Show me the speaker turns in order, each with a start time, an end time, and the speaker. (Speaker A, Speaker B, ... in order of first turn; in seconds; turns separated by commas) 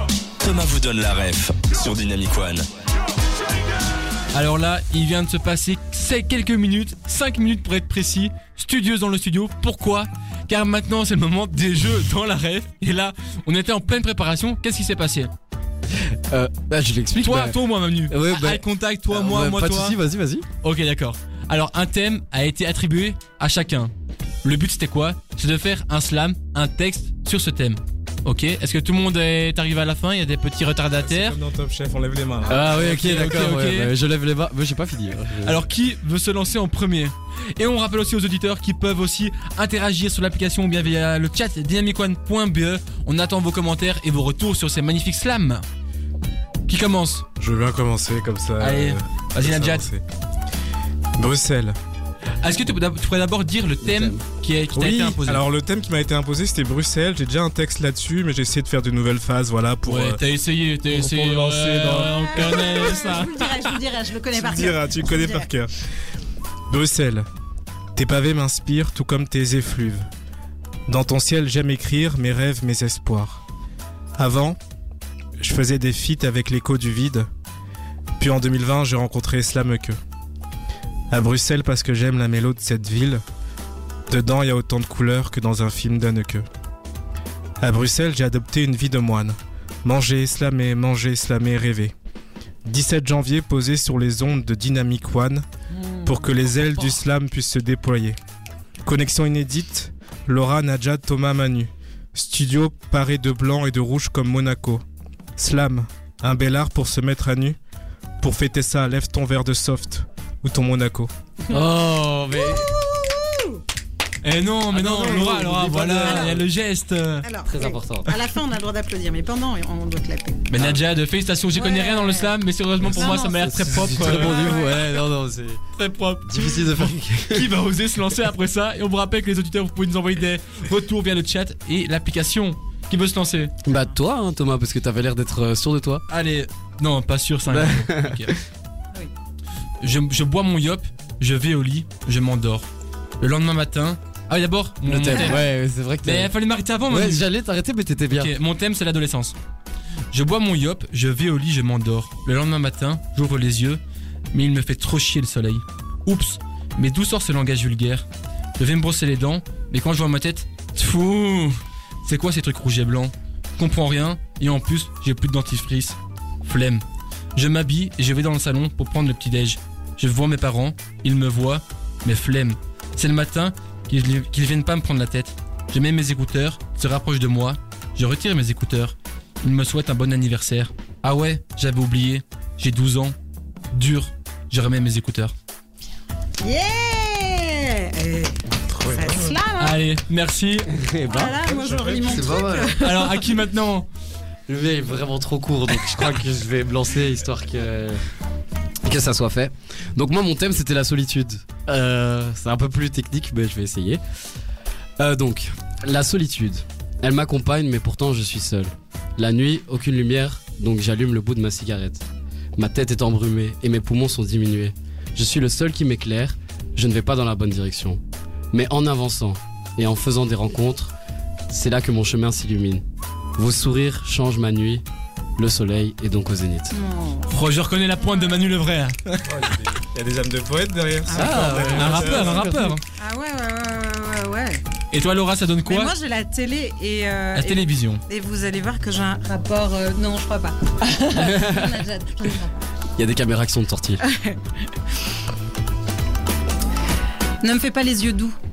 Speaker A: 0.4-2.6, Speaker B: 4.3-15.3, Speaker C: 15.9-17.6, Speaker B: 17.1-20.0, Speaker C: 18.1-20.5, Speaker B: 20.6-23.9, Speaker B: 24.4-31.4, Speaker D: 31.1-32.7, Speaker C: 32.5-35.6, Speaker B: 32.6-33.9, Speaker B: 35.4-45.6, Speaker B: 46.7-47.3, Speaker D: 47.4-50.0, Speaker B: 48.6-49.9, Speaker D: 51.1-51.8, Speaker B: 52.4-55.5, Speaker C: 53.8-54.2, Speaker D: 54.8-60.2, Speaker B: 59.8-63.8, Speaker D: 60.9-62.1, Speaker E: 62.1-65.5, Speaker D: 64.3-65.7, Speaker D: 66.7-67.3, Speaker D: 67.9-70.1, Speaker D: 70.9-73.4, Speaker D: 74.2-74.6, Speaker D: 75.4-77.3, Speaker D: 78.2-80.0, Speaker D: 81.1-83.2, Speaker D: 84.1-86.5, Speaker D: 87.6-91.9, Speaker D: 92.6-95.5, Speaker E: 95.7-96.4, Speaker D: 96.0-98.2, Speaker D: 98.8-104.8, Speaker D: 105.3-107.6, Speaker D: 108.2-111.1, Speaker C: 111.5-112.7, Speaker E: 112.3-113.6, Speaker B: 114.2-117.2, Speaker D: 114.7-115.5, Speaker C: 114.8-116.5, Speaker E: 116.0-116.4, Speaker E: 117.2-120.5, Speaker C: 117.5-118.1, Speaker B: 120.5-124.7, Speaker C: 120.5-120.8, Speaker E: 121.5-122.4, Speaker E: 122.9-123.5, Speaker C: 123.0-125.6, Speaker E: 124.2-124.7, Speaker B: 125.8-133.5, Speaker C: 126.2-127.5, Speaker C: 133.6-136.0, Speaker B: 136.1-138.3, Speaker C: 137.5-138.3, Speaker B: 139.8-142.7, Speaker B: 143.2-145.5, Speaker C: 144.8-146.3, Speaker B: 146.0-147.3, Speaker C: 146.9-148.3, Speaker B: 148.1-149.3, Speaker B: 150.1-153.8, Speaker B: 154.3-158.1, Speaker B: 158.6-166.8, Speaker B: 167.3-183.1, Speaker B: 183.7-185.3, Speaker E: 186.4-189.8, Speaker D: 188.6-189.3, Speaker B: 189.6-190.7, Speaker C: 190.7-191.4, Speaker E: 191.1-193.3, Speaker D: 191.4-192.2, Speaker C: 192.0-192.9, Speaker B: 192.8-193.9, Speaker C: 194.5-198.0, Speaker C: 198.8-204.0, Speaker C: 205.0-212.0, Speaker C: 212.6-218.0, Speaker C: 218.5-220.9, Speaker C: 221.5-222.8, Speaker C: 223.3-224.8, Speaker C: 225.4-226.7, Speaker E: 226.7-227.3, Speaker B: 227.3-229.2, Speaker E: 228.0-228.4, Speaker D: 229.3-232.5, Speaker E: 231.0-231.8, Speaker C: 231.1-232.8, Speaker B: 231.2-232.8, Speaker E: 233.0-234.6, Speaker B: 234.9-235.9, Speaker E: 235.6-242.7, Speaker B: 237.3-238.0, Speaker C: 241.1-241.8, Speaker C: 242.9-244.0, Speaker E: 244.1-244.4, Speaker E: 247.4-248.4